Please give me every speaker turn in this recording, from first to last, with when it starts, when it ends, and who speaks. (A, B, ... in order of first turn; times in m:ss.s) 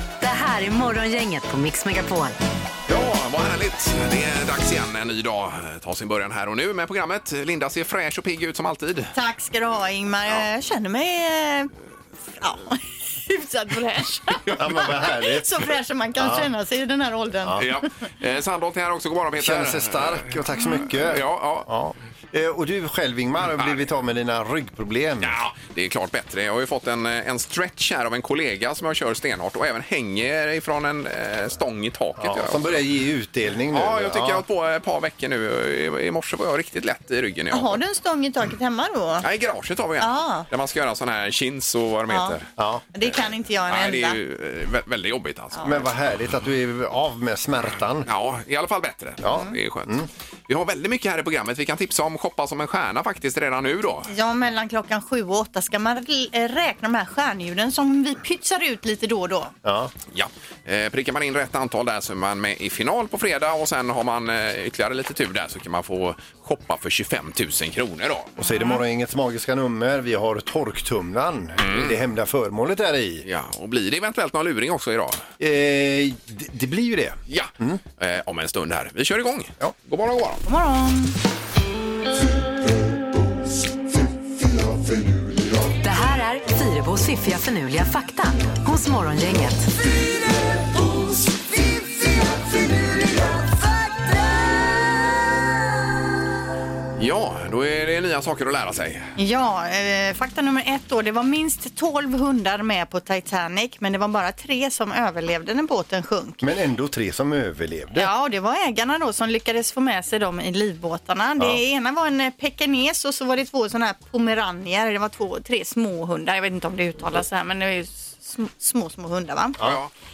0:00.2-0:02.4 A
0:02.9-0:09.1 B
0:09.1-0:11.7 C
0:12.4-0:17.8 C
0:14.6-0:15.5 D
0:16.2-0:16.5 D
0:17.6-0:21.7 B
0:19.4-0:25.4 D
0:23.5-0:23.8 B
0:25.2-0:32.8 B
0:32.2-0:34.4 D
0:33.7-0:37.8 B
0:37.5-0:39.2 C
0:39.2-0:42.5 B
0:40.0-0:40.5 C
0:42.1-0:42.4 C
0:42.6-0:42.8 D
0:42.9-0:44.2 C
0:43.7-0:45.8 B
0:45.6-0:48.1 D
0:48.0-0:50.0 B
0:49.2-0:50.1 D
0:50.5-0:54.1 B
0:54.1-0:59.5 C
0:59.6-0:59.9 D
1:00.1-1:08.3 B
1:08.4-1:13.2 D
1:08.4-1:08.8 C
1:11.6-1:12.0 B
1:13.2-1:15.2 B
1:15.4-1:17.8 D
1:17.3-1:20.4 B
1:20.4-1:21.2 C
1:25.8-1:29.7 A
1:37.0-1:39.1 B
1:39.2-1:46.4 C
1:46.4-1:48.1 D
1:47.9-1:59.6 C
1:59.6-1:59.9 B